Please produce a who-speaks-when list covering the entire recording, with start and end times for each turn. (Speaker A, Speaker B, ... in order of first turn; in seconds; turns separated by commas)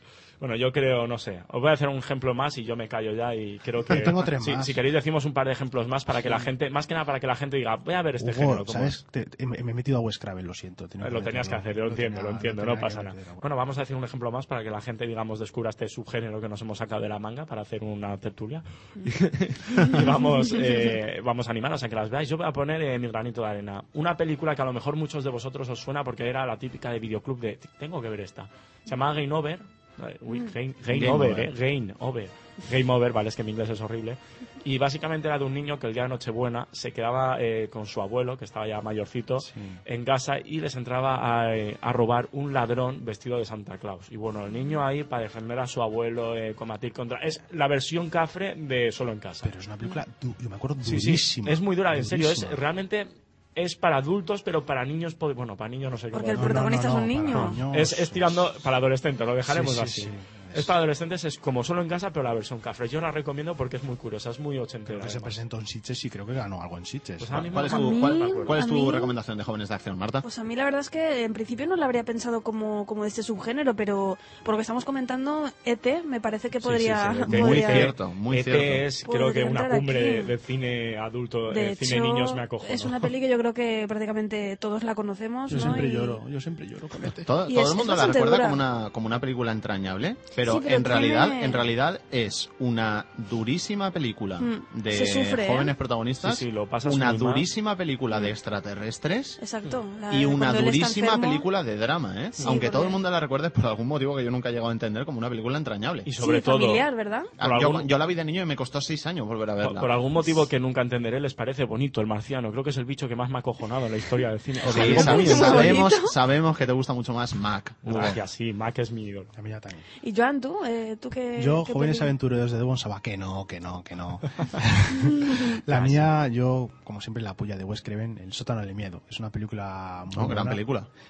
Speaker A: 0.4-9.0, Speaker B: 3.9-4.8, Speaker B: 8.2-13.5, Speaker A: 11.0-49.5, Speaker C: 30.9-31.5, Speaker B: 39.4-39.8, Speaker B: 49.4-52.6, Speaker A: 50.8-56.7, Speaker D: 56.1-57.6, Speaker B: 56.3-58.6, Speaker A: 57.3-65.4, Speaker B: 59.5-60.7, Speaker B: 64.9-67.6, Speaker A: 67.2-68.5, Speaker C: 67.5-70.2, Speaker D: 67.7-69.1, Speaker D: 70.2-77.9, Speaker A: 76.6-83.1, Speaker C: 77.3-78.9, Speaker D: 79.0-80.3, Speaker D: 81.5-86.2, Speaker B: 85.5-87.3, Speaker C: 87.2-99.4, Speaker D: 87.5-88.6, Speaker D: 90.4-91.6, Speaker D: 94.4-95.7, Speaker A: 96.2-97.5, Speaker D: 99.4-101.5, Speaker C: 100.1-106.1, Speaker D: 102.4-103.0, Speaker A: 106.0-106.9, Speaker D: 106.2-107.3, Speaker A: 107.4-107.9, Speaker C: 107.4-110.0, Speaker A: 109.6-115.8, Speaker C: 114.7-118.2, Speaker D: 114.7-116.1, Speaker A: 117.8-119.3, Speaker B: 119.3-119.8, Speaker D: 120.0-122.1, Speaker B: 121.4-130.6, Speaker A: 125.7-126.1, Speaker C: 130.1-130.9